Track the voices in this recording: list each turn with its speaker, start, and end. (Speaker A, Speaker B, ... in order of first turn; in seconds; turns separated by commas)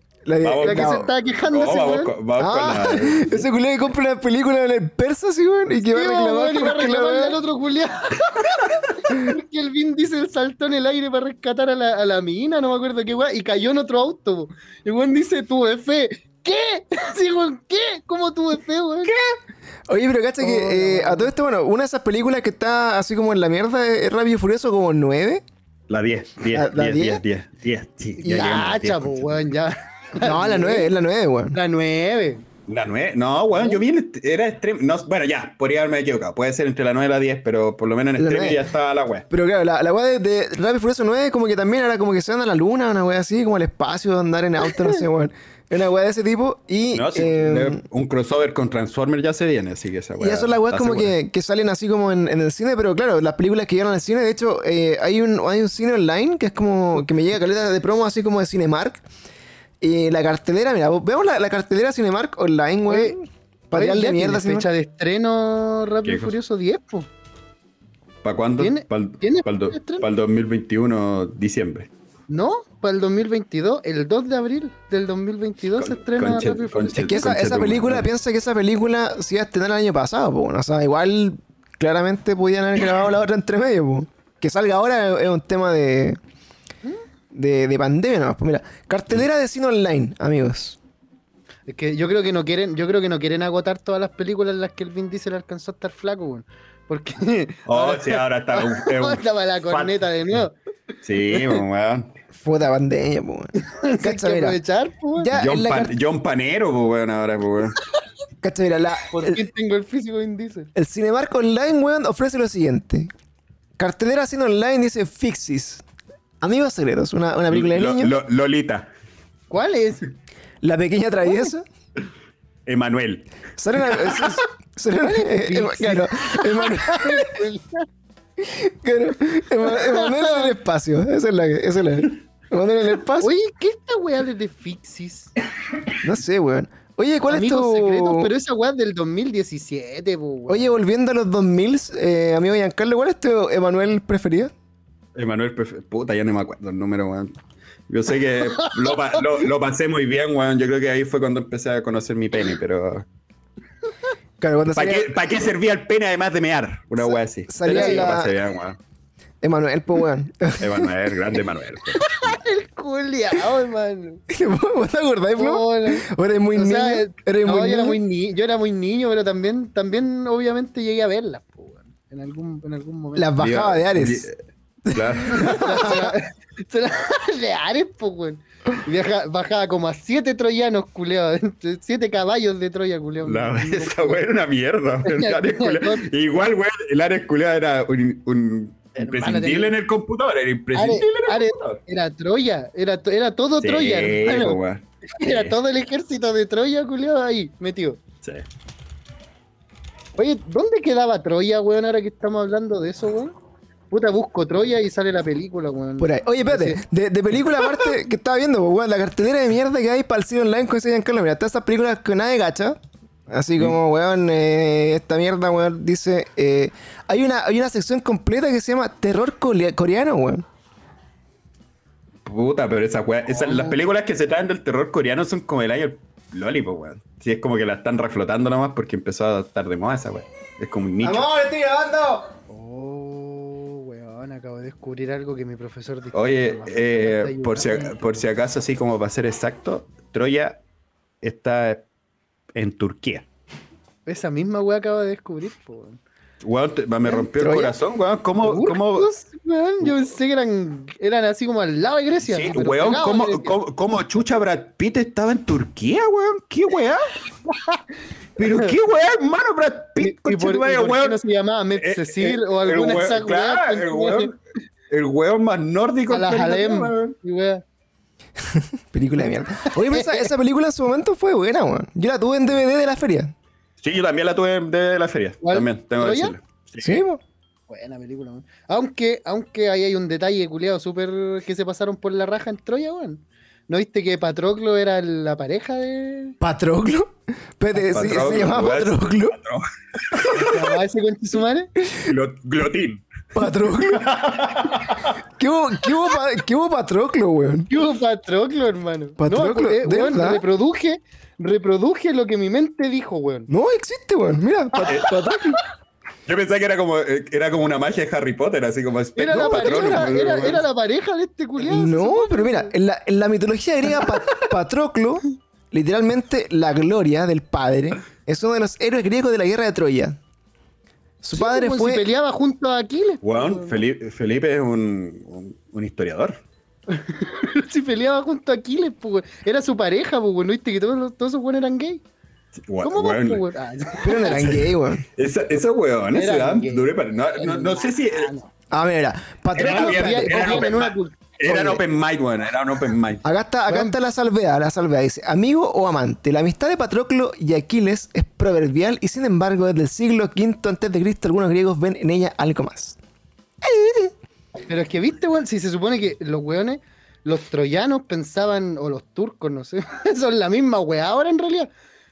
Speaker A: 0.3-1.1, Speaker B: 0.4-3.5, Speaker C: 0.6-2.1, Speaker A: 2.4-7.4, Speaker C: 5.9-19.1, Speaker B: 19.1-19.3, Speaker A: 19.9-25.4, Speaker C: 20.4-21.3, Speaker B: 25.9-29.4, Speaker A: 26.5-27.2, Speaker C: 28.2-30.9, Speaker A: 30.2-31.6, Speaker C: 31.5-32.5, Speaker B: 32.7-39.2, Speaker C: 33.5-33.8, Speaker A: 38.2-38.6, Speaker A: 39.3-47.8, Speaker B: 46.9-51.1, Speaker A: 50.2-59.0, Speaker A: 59.8-64.7, Speaker C: 62.9-63.2, Speaker C: 63.7-67.1, Speaker B: 66.0-66.3, Speaker B: 68.2-71.9, Speaker C: 68.6-70.1, Speaker C: 72.3-77.0, Speaker B: 75.8-78.1, Speaker A: 77.0-86.2, Speaker A: 87.3-90.8, Speaker C: 91.7-100.5, Speaker B: 97.7-100.0, Speaker B: 101.0-102.1, Speaker C: 101.3-101.6, Speaker A: 102.3-104.6, Speaker C: 103.6-105.3, Speaker A: 105.2-105.9, Speaker B: 105.4-107.8, Speaker A: 108.4-109.4, Speaker C: 109.1-110.7, Speaker A: 110.8-113.1, Speaker A: 113.8-115.8, Speaker A: 116.4-118.1, Speaker B: 117.5-118.9, Speaker C: 119.5-120.0, Speaker A: 120.6-121.7, Speaker B: 122.7-123.3, Speaker A: 123.6-127.4, Speaker C: 125.0-127.9, Speaker A: 128.4-133.3, Speaker C: 129.7-130.5, Speaker C: 133.2-135.3, Speaker A: 136.0-138.3, Speaker C: 137.3-140.8, Speaker A: 140.5-144.5, Speaker B: 145.2-147.3, Speaker B: 147.9-153.1, Speaker C: 148.6-149.2, Speaker A: 154.4-155.2, Speaker B: 154.8-158.8, Speaker A: 157.5-158.3, Speaker C: 157.7-158.1, Speaker A: 159.4-161.1, Speaker B: 160.6-162.4, Speaker C: 161.9-164.2, Speaker A: 164.3-168.0, Speaker C: 165.4-173.3, Speaker A: 173.2-174.3, Speaker B: 173.4-174.4, Speaker A: 174.9-176.1, Speaker B: 174.9-176.0, Speaker C: 175.3-184.2, Speaker B: 183.2-191.8, Speaker C: 185.1-186.1, Speaker C: 189.0-189.7, Speaker C: 190.7-194.6, Speaker B: 193.6-195.6, Speaker C: 195.1-198.0, Speaker C: 200.2-203.3, Speaker C: 203.9-206.8, Speaker A: 206.0-220.4, Speaker B: 222.2-231.3, Speaker C: 223.4-223.7, Speaker A: 231.0-232.3, Speaker C: 232.5-237.9, Speaker B: 236.1-240.6, Speaker B: 241.2-241.8, Speaker B: 242.5-243.3, Speaker C: 244.1-246.0, Speaker B: 246.4-249.1, Speaker A: 247.4-247.8, Speaker C: 248.4-253.6, Speaker B: 252.2-257.1, Speaker C: 257.5-257.8, Speaker B: 258.4-261.2, Speaker C: 258.4-258.7, Speaker C: 260.0-264.3, Speaker B: 261.8-264.4, Speaker B: 264.9-267.1, Speaker C: 266.1-267.6, Speaker A: 268.4-273.3, Speaker C: 269.7-270.3, Speaker B: 273.8-277.0, Speaker C: 275.4-276.4, Speaker A: 276.8-277.2, Speaker C: 277.7-286.4, Speaker A: 286.4-289.4, Speaker C: 287.8-288.5, Speaker B: 287.9-290.8, Speaker C: 290.3-291.7, Speaker B: 292.0-293.1, Speaker A: 293.4-294.1, Speaker B: 293.8-295.2, Speaker A: 295.2-297.7, Speaker C: 297.7-303.5, Speaker A: 299.2-300.4, Speaker A: 303.5-305.6, Speaker B: 304.8-305.5, Speaker B: 306.3-310.6, Speaker C: 309.2-312.7, Speaker A: 309.3-310.2, Speaker A: 311.6-320.2, Speaker C: 314.0-314.5, Speaker A: 321.2-322.1, Speaker C: 321.3-323.8, Speaker B: 323.2-326.4, Speaker C: 326.9-332.0, Speaker B: 332.7-333.4, Speaker C: 332.8-334.5, Speaker A: 334.0-335.1, Speaker B: 334.3-338.3, Speaker C: 336.1-338.5, Speaker A: 338.7-340.7, Speaker B: 339.6-343.2, Speaker C: 339.6-341.8, Speaker A: 343.2-353.0, Speaker C: 343.7-344.0, Speaker A: 353.6-354.1, Speaker C: 354.7-361.7